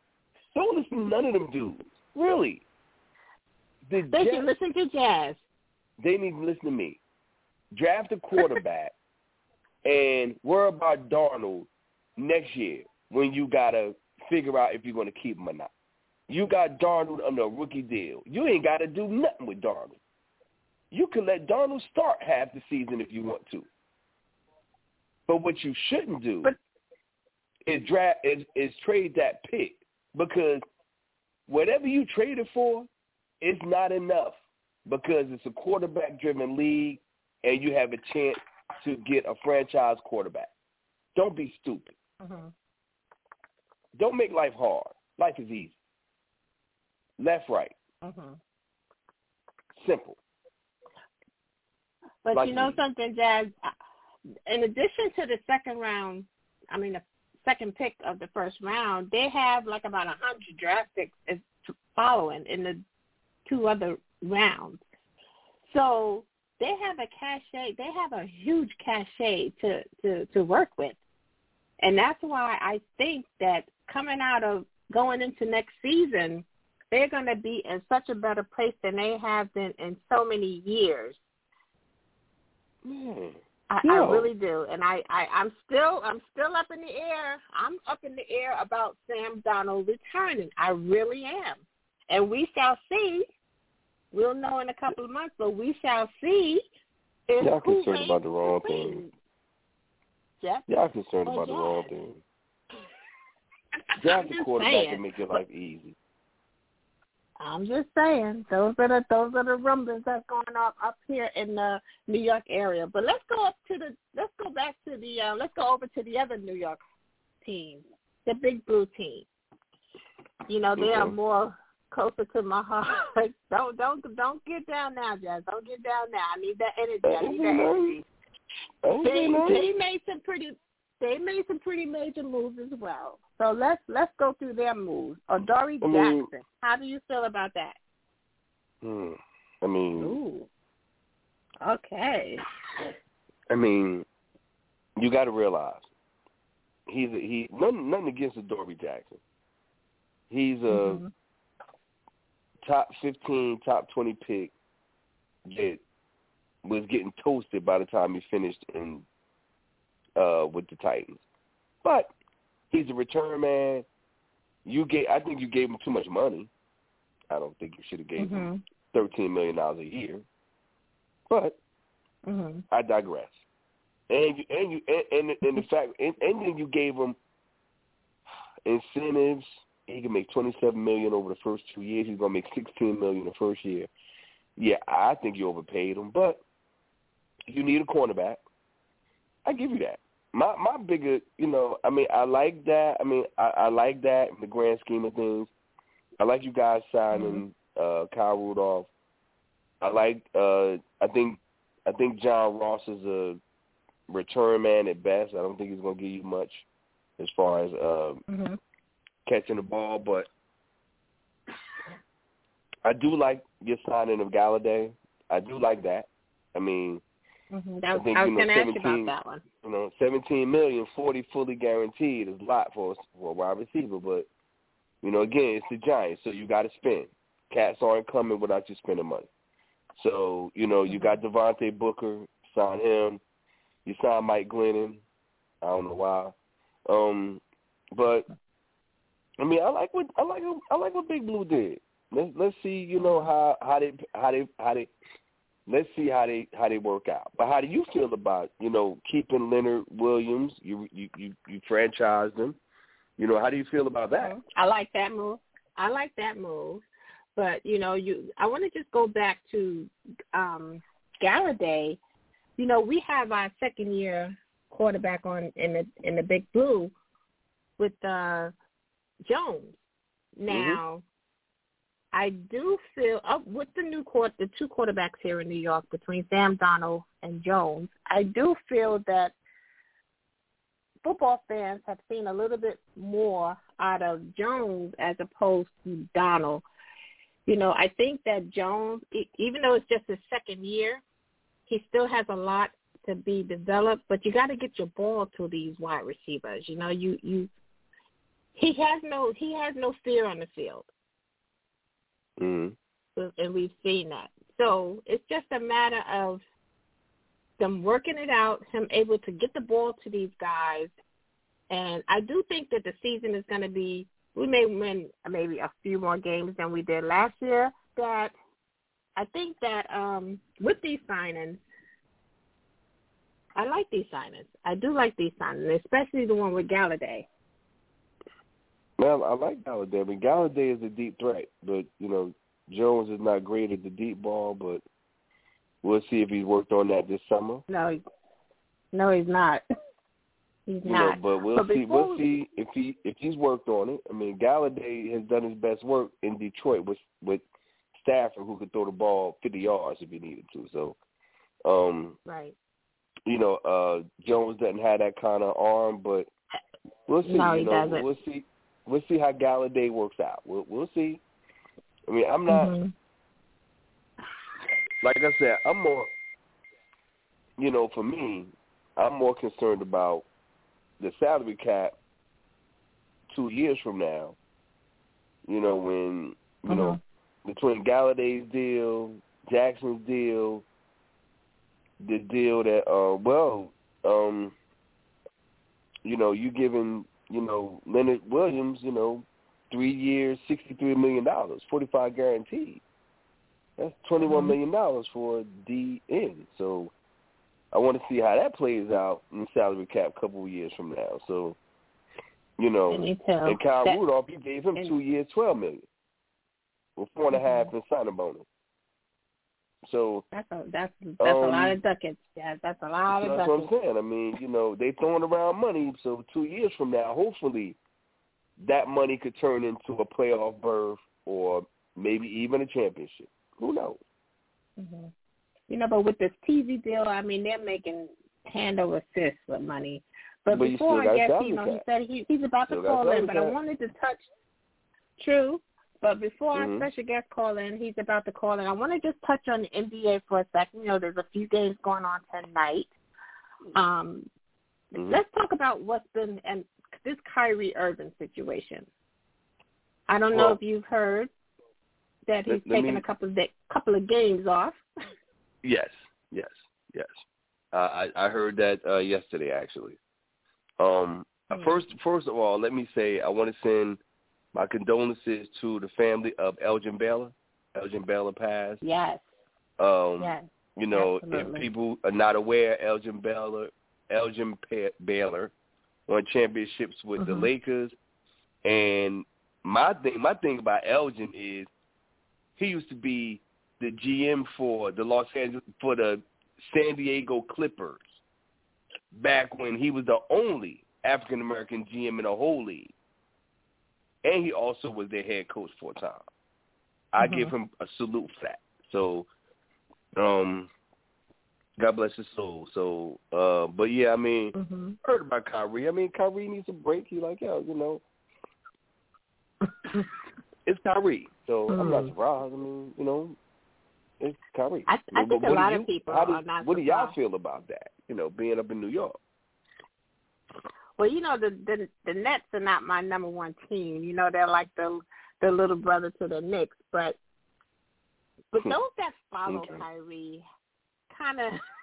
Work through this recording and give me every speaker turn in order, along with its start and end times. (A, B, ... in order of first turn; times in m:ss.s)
0:00.5-0:02.6 A
0:03.8-0:04.5 A
0:04.1-0:05.4 B
0:06.0-0:07.0 A
0:07.7-0:08.9 A
0:09.8-0:15.7 A
0:16.3-0:20.0 A
0:20.9-0:23.7 A
0:25.3-0:26.5 A
0:27.6-0:30.6 A
0:31.5-0:32.9 A
0:33.4-0:40.5 A
0:41.1-0:41.9 A
0:42.2-0:42.5 B
0:44.0-0:45.7 A
0:47.2-0:47.7 A
0:48.0-0:48.4 B
0:49.8-0:50.2 A
0:52.2-0:53.7 B
0:52.3-0:52.8 A
0:54.5-1:02.8 B
1:03.5-1:04.8 B
1:05.7-1:11.0 B
1:11.8-1:21.2 B
1:22.8-1:24.3 A
1:23.7-1:33.2 B
1:34.1-1:36.6 B
1:37.3-1:39.1 B
1:37.4-1:39.0 A
1:40.7-1:42.2 A
1:41.2-1:41.9 B
1:44.0-1:46.0 A
1:44.0-1:45.0 B
1:47.4-1:56.8 B
1:57.4-1:59.2 B
2:00.5-2:08.1 B
2:00.8-2:01.2 A
2:07.0-2:08.0 A
2:08.8-2:09.6 A
2:09.0-2:17.8 B
2:15.8-2:16.3 A
2:18.8-2:20.2 A
2:20.0-2:20.5 B
2:21.6-2:22.4 B
2:23.5-2:24.0 A
2:25.0-2:25.9 A
2:26.9-2:29.2 A
2:30.3-2:31.0 A
2:30.7-2:31.1 B
2:32.6-2:34.5 A
2:35.4-2:35.8 A
2:36.6-2:39.0 A
2:40.2-2:41.2 A
2:41.8-2:42.1 A
2:42.7-2:43.8 A
2:44.6-2:46.5 A
2:47.3-2:50.2 A
2:48.2-2:48.6 B
2:51.3-2:51.6 A
2:52.3-2:52.6 B
2:52.7-2:53.4 A
2:54.1-2:57.2 A
2:58.6-3:03.9 A
3:04.6-3:06.4 A
3:07.5-3:08.4 A
3:09.4-3:15.5 A
3:16.2-3:18.9 A
3:17.1-3:17.4 B
3:19.8-3:23.4 A
3:24.1-3:26.6 A
3:27.2-3:28.2 A
3:28.3-3:28.6 B
3:29.2-3:30.3 A
3:32.8-3:37.0 A
3:37.5-3:39.4 B
3:37.9-3:44.3 A
3:45.0-3:49.3 A
3:49.9-3:53.2 A
3:50.9-3:51.2 B
3:53.8-3:55.0 A
3:55.6-3:56.4 A
3:56.9-3:57.4 A
3:57.9-3:58.3 A
3:59.4-4:04.9 A
4:03.0-4:03.3 B
4:05.7-4:12.6 A
4:13.2-4:14.3 A
4:14.2-4:16.8 B
4:17.4-4:22.0 B
4:22.6-4:26.9 B
4:27.8-4:28.5 B
4:29.3-4:29.8 B
4:30.4-4:31.0 B
4:30.5-4:30.8 A
4:32.1-4:39.3 B
4:41.0-4:46.6 B
4:47.4-4:51.0 B
4:51.7-4:57.5 B
4:58.6-5:00.9 B
5:02.4-5:02.8 A
5:03.2-5:06.4 B
5:07.6-5:10.9 B
5:11.7-5:18.3 B
5:19.2-5:21.6 B
5:23.6-5:27.3 B
5:29.0-5:34.8 A
5:35.8-5:37.6 A
5:37.7-5:38.0 B
5:38.9-5:39.6 B
5:40.7-5:42.2 B
5:40.8-5:47.4 A
5:47.9-5:51.0 A
5:51.6-5:52.2 A
5:52.2-5:52.5 B
5:53.2-5:56.3 A
5:57.0-6:01.2 A
5:57.2-5:58.0 B
6:02.1-6:02.7 A
6:02.5-6:02.9 B
6:05.0-6:06.1 A
6:07.6-6:10.2 A
6:11.0-6:11.9 A
6:13.3-6:14.4 A
6:15.4-6:20.6 A
6:16.7-6:17.0 B
6:22.0-6:24.5 A
6:26.0-6:32.8 A
6:33.8-6:36.9 A
6:34.2-6:34.6 B
6:37.7-6:41.6 A
6:42.6-6:45.8 A
6:42.9-6:44.0 B
6:47.0-6:48.4 A
6:47.3-6:47.7 B
6:49.8-6:50.2 A
6:50.3-6:53.7 B
6:51.2-6:51.8 A
6:53.2-6:57.8 A
6:58.6-7:04.0 A
7:04.8-7:05.1 B
7:05.7-7:14.2 B
7:10.5-7:11.8 A
7:12.7-7:13.6 A
7:15.2-7:22.9 B
7:16.5-7:16.9 A
7:23.7-7:24.3 B
7:24.9-7:25.2 A
7:24.9-7:28.9 B
7:30.1-7:31.3 B
7:30.3-7:30.6 A
7:32.3-7:34.8 B
7:32.5-7:33.0 A
7:35.6-7:40.0 A
7:40.8-7:44.0 A
7:44.5-7:48.8 A
7:48.8-7:49.2 B
7:49.8-7:55.5 A
7:50.2-7:51.7 B
7:56.1-7:57.9 A
7:57.2-7:57.5 B
7:58.6-8:01.7 A
8:02.6-8:08.1 A
8:09.1-8:12.9 A
8:14.2-8:16.2 A
8:17.1-8:19.3 A
8:17.2-8:17.5 B
8:20.2-8:20.7 A
8:21.8-8:28.0 A
8:24.6-8:25.0 B
8:30.6-8:33.4 A
8:31.7-8:32.1 B
8:34.2-8:39.2 A
8:34.9-8:37.1 B
8:41.0-8:47.2 B
8:48.5-8:50.4 B
8:49.5-8:49.8 A
8:51.1-8:51.6 B